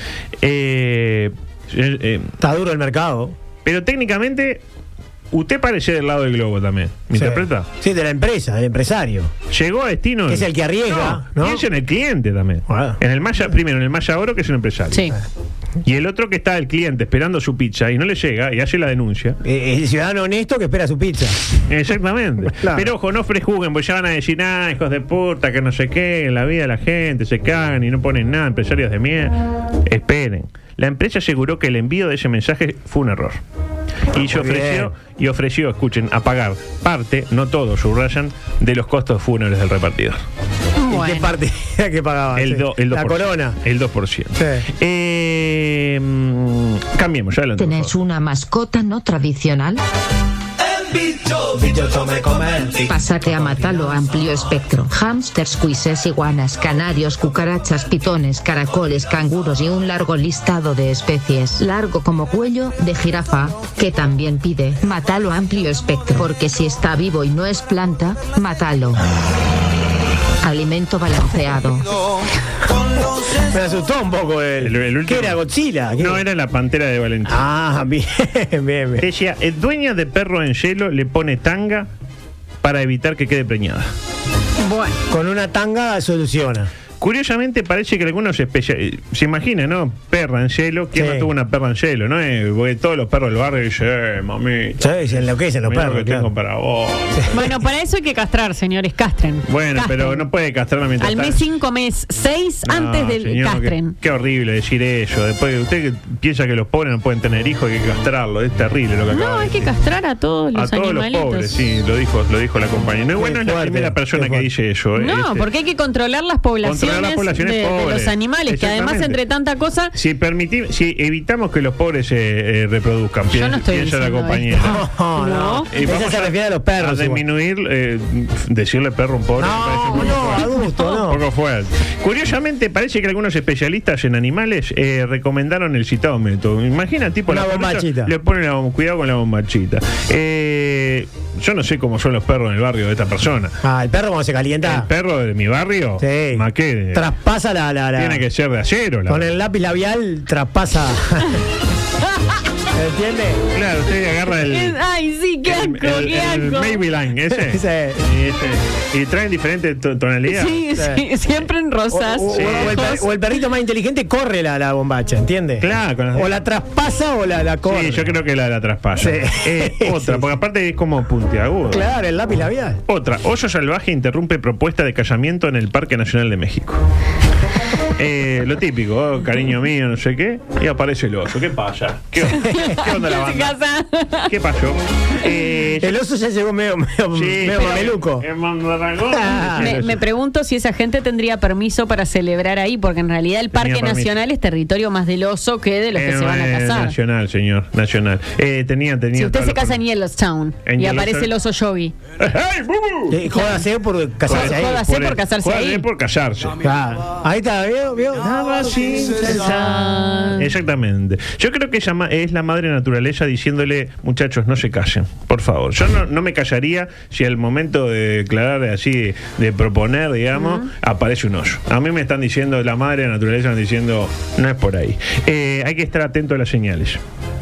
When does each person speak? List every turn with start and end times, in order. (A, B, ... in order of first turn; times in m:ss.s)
0:00.4-0:02.3 A
0:02.4-0:03.3 B
0:03.6-0:04.6 A
0:05.3-0:07.7 A
0:07.1-0:09.3 B
0:09.5-0:15.1 A
0:10.3-0:11.6 B
0:12.7-0:13.0 B
0:15.8-0:19.4 A
0:19.4-0:21.4 B
0:21.6-0:33.4 A
0:22.6-0:22.9 B
0:34.1-0:40.2 A
0:34.1-0:34.9 B
0:40.8-0:41.3 C
0:40.9-0:43.6 B
0:42.4-0:47.9 A
0:44.4-0:44.6 B
0:47.6-0:49.8 D
0:51.5-0:52.9 B
0:52.8-1:09.0 D
1:10.4-1:11.9 D
1:13.3-1:16.2 B
1:14.6-1:15.4 A
1:16.0-1:17.4 A
1:17.3-1:19.1 B
1:19.0-1:21.9 A
1:22.6-1:23.9 A
1:24.6-1:25.0 C
1:25.1-1:26.7 B
1:27.0-1:37.4 A
1:31.0-1:31.3 B
1:34.8-1:36.3 B
1:37.3-1:40.2 C
1:39.5-1:41.4 A
1:41.0-1:44.0 C
1:42.6-1:49.7 A
1:49.1-1:51.6 C
1:50.6-1:55.5 A
1:53.2-1:54.5 B
1:55.0-1:59.9 C
1:56.6-1:59.2 A
2:00.0-2:04.8 A
2:03.3-2:05.7 C
2:04.6-2:07.2 B
2:05.7-2:23.5 A
2:09.4-2:11.2 B
2:17.3-2:18.1 B
2:23.6-2:24.9 B
2:24.6-2:27.1 A
2:26.0-2:28.2 B
2:28.0-2:29.3 A
2:29.1-2:31.4 B
2:32.8-2:33.4 B
2:33.5-2:34.8 A
2:34.4-2:36.8 C
2:35.5-2:40.7 A
2:37.3-2:38.0 B
2:40.3-2:43.0 C
2:40.8-2:41.0 B
2:41.9-2:48.1 B
2:42.3-2:43.0 A
2:45.6-2:46.4 A
2:47.6-2:51.9 A
2:49.0-2:50.3 B
2:51.7-2:52.8 B
2:52.9-2:56.8 A
2:58.0-3:03.6 A
3:02.2-3:04.3 C
3:04.3-3:06.0 A
3:05.8-3:08.2 B
3:07.1-3:10.0 A
3:09.1-3:09.8 B
3:09.5-3:17.0 C
3:13.5-3:14.1 A
3:15.9-3:19.8 A
3:19.2-3:22.0 C
3:20.7-3:21.3 A
3:22.2-3:23.2 A
3:23.1-3:24.8 B
3:24.2-3:26.6 A
3:24.2-3:25.8 C
3:26.6-3:28.3 B
3:28.2-3:47.0 A
3:29.3-3:30.5 C
3:40.4-3:40.7 C